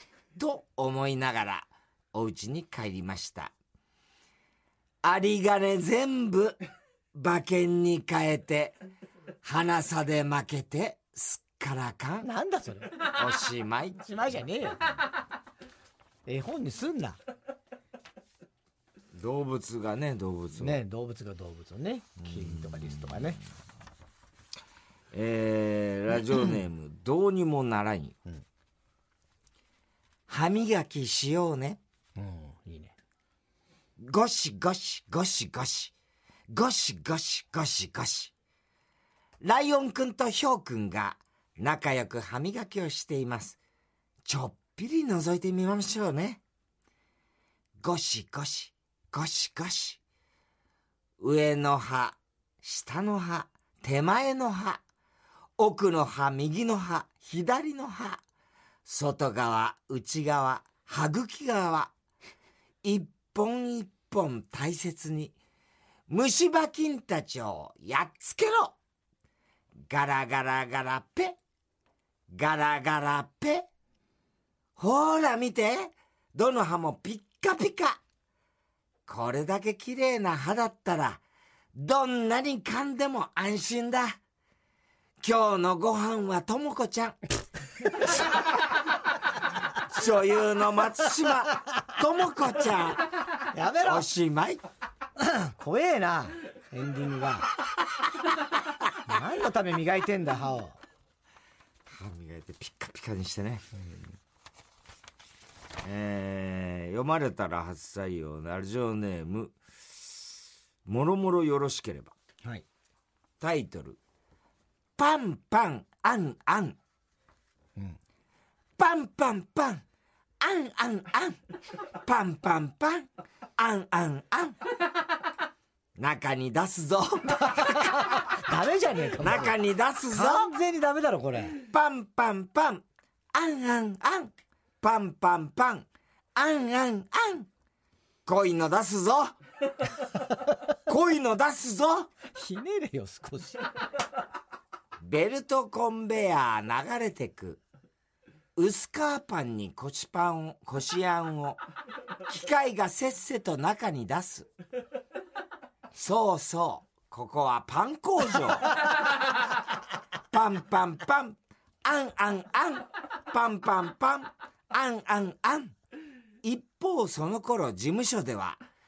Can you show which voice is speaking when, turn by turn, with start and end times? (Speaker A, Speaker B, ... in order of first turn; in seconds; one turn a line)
Speaker A: 0.3-3.5
Speaker A: 5.0-6.6
Speaker A: 7.1-8.8
Speaker A: 9.4-12.3
Speaker B: 12.2-13.0
Speaker A: 12.9-14.0
Speaker B: 14.0-14.8
Speaker B: 16.2-17.2
Speaker A: 19.1-20.8
Speaker B: 20.6-23.4
Speaker A: 22.2-23.4
Speaker A: 25.1-28.2
Speaker A: 30.3-31.8
Speaker B: 32.1-32.9
Speaker A: 34.0-35.9
Speaker A: 36.5-38.3
Speaker A: 39.4-43.6
Speaker A: 44.2-46.4
Speaker A: 47.8-50.0
Speaker A: 51.2-54.8
Speaker A: 55.6-58.2
Speaker A: 58.8-61.9
Speaker A: 62.8-65.3
Speaker A: 66.1-68.8
Speaker A: 69.9-71.4
Speaker A: 72.3-73.7
Speaker A: 74.8-78.0
Speaker A: 79.1-81.2
Speaker A: 81.7-84.2
Speaker A: 85.2-87.2
Speaker A: 89.8-93.1
Speaker B: 93.5-94.1
Speaker A: 93.8-94.6
Speaker B: 95.2-97.5
Speaker B: 99.0-100.8
Speaker A: 101.8-103.7
Speaker B: 103.8-104.0
Speaker A: 105.8-112.1
Speaker A: 113.4-114.0
Speaker A: 115.0-116.8
Speaker A: 118.8-119.8
Speaker A: 120.4-124.6
Speaker A: 126.0-128.2
Speaker B: 127.4-129.6
Speaker A: 129.2-130.5
Speaker B: 130.1-131.6
Speaker A: 131.5-137.5
Speaker A: 138.2-139.3
Speaker A: 140.8-142.1
Speaker B: 142.3-143.7
Speaker A: 145.0-147.6
Speaker A: 148.6-151.6
Speaker A: 152.2-154.5
Speaker A: 155.9-158.9
Speaker A: 160.3-165.7
Speaker A: 166.4-168.6